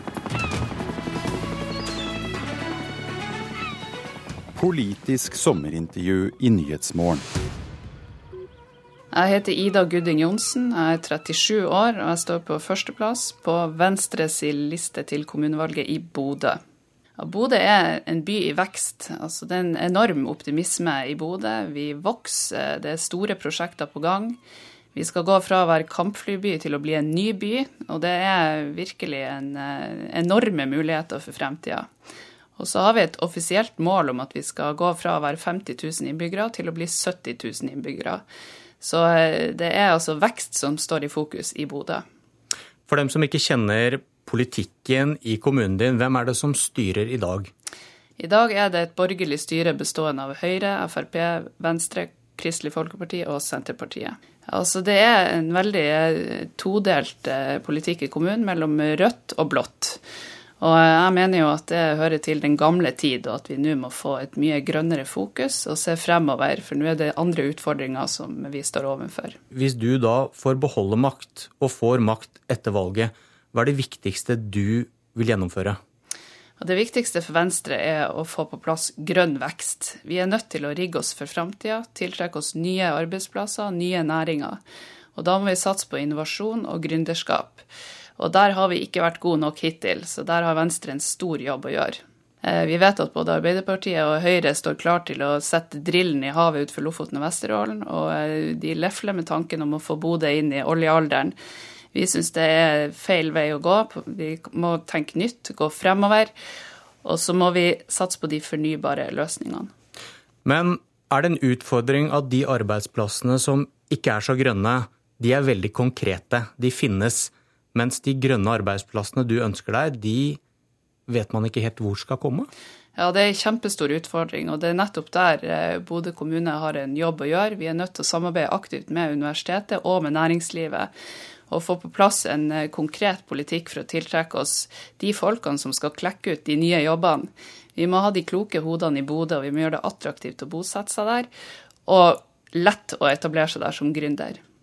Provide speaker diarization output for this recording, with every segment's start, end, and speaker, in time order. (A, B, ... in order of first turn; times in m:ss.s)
0:04.6-0:07.3 A
0:09.1-0:16.6 B
0:17.2-0:24.4 B
0:25.0-0:31.9 B
0:32.6-0:38.2 B
0:38.8-0:42.0 B
0:42.9-0:47.5 C
0:48.2-1:00.0 B
1:00.6-1:09.4 B
1:09.5-1:15.8 C
1:16.6-1:24.6 B
1:25.2-1:27.6 B
1:28.2-1:41.4 B
1:41.9-1:46.3 B
1:47.0-1:49.7 B
1:50.4-2:00.4 C
2:01.1-2:02.5 C
2:03.0-2:10.9 B
2:11.5-2:21.3 B
2:21.9-2:24.4 B